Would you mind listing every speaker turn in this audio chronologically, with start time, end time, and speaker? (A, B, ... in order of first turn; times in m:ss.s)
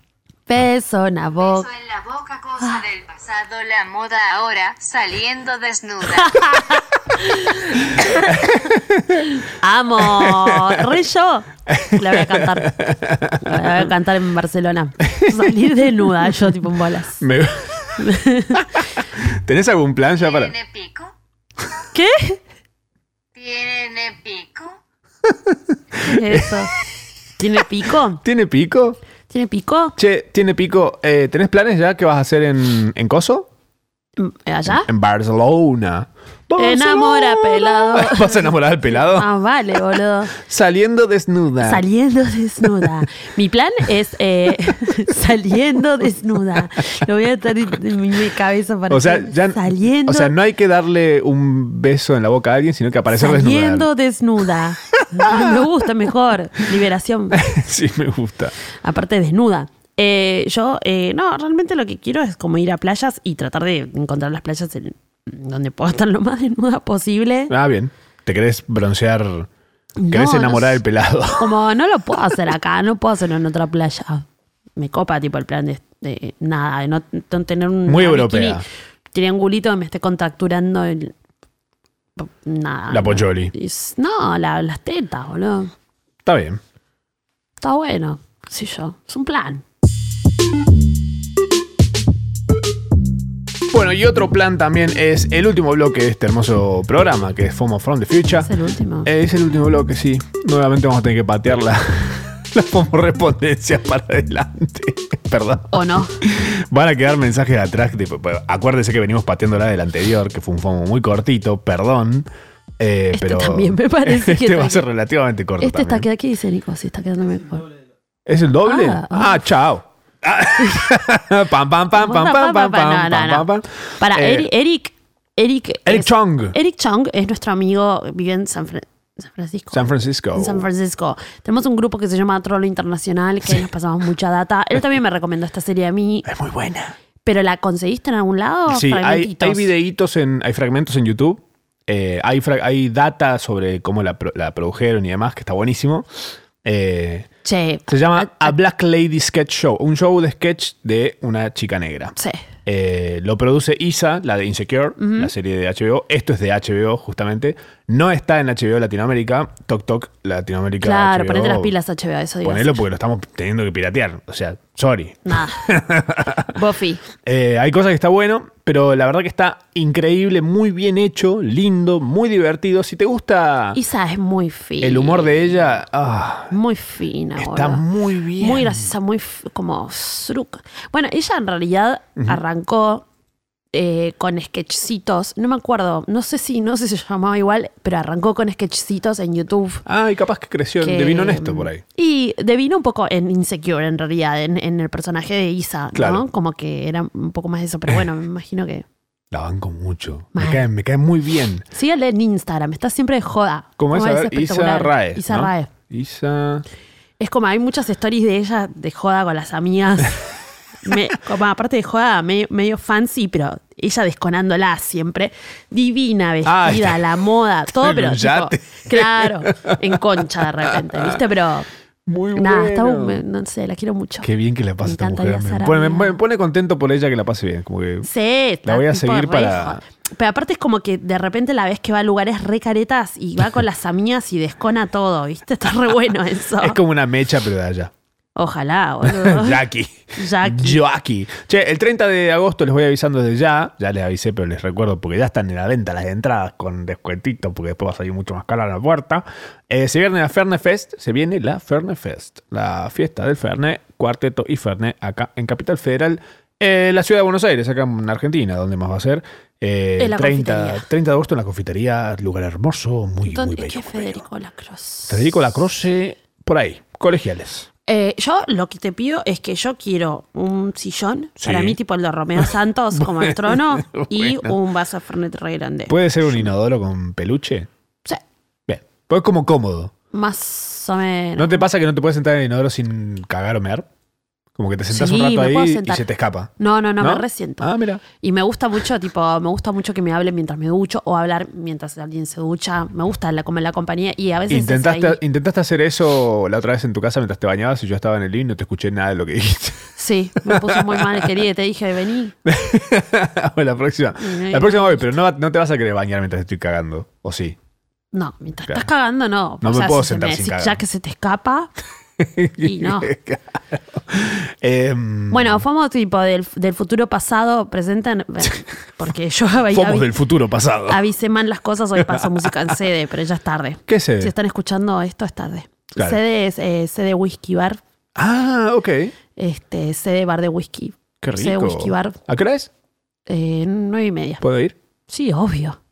0:00.5-0:01.7 A
0:01.4-0:06.8 B
0:06.1-0:08.4 A
0:08.0-0:09.4 C
0:09.4-0:12.8 A
0:10.0-0:11.0 C
0:11.7-0:13.9 C
0:13.4-0:17.2 A
0:15.0-0:16.4 C
0:17.2-0:20.5 C
0:18.0-0:18.7 A
0:20.2-0:21.1 B
0:21.9-0:22.4 A
0:23.3-0:24.7 B
0:25.2-0:26.5 C
0:26.0-0:26.7 A
0:27.4-0:28.2 A
0:28.2-0:29.0 C
0:29.3-0:30.0 A
0:30.0-0:33.5 C
0:34.2-0:34.9 A
0:34.7-0:39.3 C
0:36.6-0:40.4 A
0:40.3-0:41.8 C
0:41.6-0:50.3 A
0:42.6-0:43.0 C
0:48.9-0:53.9 C
0:53.1-0:57.4 A
0:54.9-0:55.7 C
0:57.3-0:58.5 C
0:58.8-1:07.5 A
1:07.5-1:09.5 C
1:10.0-1:10.8 A
1:10.1-1:11.6 C
1:11.4-1:14.2 A
1:14.8-1:21.1 A
1:17.8-1:18.6 C
1:22.2-1:25.7 A
1:22.9-1:23.5 C
1:26.2-1:26.6 C
1:27.6-1:29.6 A
1:33.7-1:38.5 C
1:38.4-1:39.1 A
1:39.0-1:52.3 C
1:45.7-1:46.1 A
1:52.8-1:56.1 C
1:53.1-1:54.8 A
1:55.6-1:57.7 A
1:58.2-2:04.5 C
1:58.6-1:59.4 A
2:01.9-2:03.5 A
2:04.0-2:16.3 A
2:05.8-2:06.6 C
2:09.7-2:10.7 C
2:16.2-2:16.9 C
2:17.2-2:19.7 A
2:18.7-2:26.1 C
2:26.6-2:27.3 C
2:27.4-2:28.5 A
2:27.9-2:32.1 C
2:32.2-2:32.4 A
2:32.6-2:41.7 C
2:35.0-2:35.3 A
2:40.8-2:42.8 A
2:42.4-2:46.6 C
2:45.2-2:45.7 A
2:46.5-2:47.0 A
2:47.2-2:53.8 C
2:53.7-2:55.5 A
2:54.8-2:56.5 C
2:56.5-2:57.8 A
2:57.4-2:58.9 C
2:58.4-3:03.0 A
3:03.7-3:09.8 A
3:09.8-3:11.8 C
3:10.8-3:18.8 A
3:15.9-3:16.2 C
3:19.3-3:21.6 C
3:20.3-3:20.6 A
3:21.7-3:25.7 A
3:23.8-3:26.6 C
3:27.2-3:30.3 A
3:30.8-3:41.7 A
3:36.4-3:37.0 C
3:37.8-3:41.2 C
3:42.0-3:43.2 C
3:42.3-3:44.3 A
3:44.2-3:48.1 C
3:44.8-3:46.2 A
3:48.0-3:56.8 A
3:48.6-3:49.8 C
3:56.6-3:57.9 C
3:58.4-4:00.8 A
3:59.0-4:24.2 C
4:20.0-4:20.8 A
4:23.2-4:25.4 A
4:25.1-4:27.7 C
4:27.9-4:36.5 A
4:31.4-4:31.8 C
4:32.4-4:34.6 C
4:35.9-4:37.7 C
4:38.7-4:39.9 C
4:40.1-4:41.7 A
4:41.4-4:43.8 C
4:44.6-4:48.0 C
4:44.9-4:46.0 A
4:46.6-4:55.2 A
4:54.5-4:59.9 C
5:00.0-5:02.3 A
5:00.4-5:01.3 C
5:02.4-5:07.6 C
5:04.2-5:05.1 A
5:08.1-5:11.7 A
5:09.6-5:10.8 C
5:12.2-5:15.6 C
5:12.6-5:13.1 A
5:15.3-5:20.1 A
5:19.7-5:21.0 C
5:20.9-5:27.8 A
5:22.0-5:22.7 C
5:23.9-5:24.3 C
5:28.2-5:29.1 C
5:29.4-5:32.2 A
5:31.2-5:32.7 C
5:33.3-5:34.4 A
5:34.4-5:34.7 C
5:35.1-5:35.8 A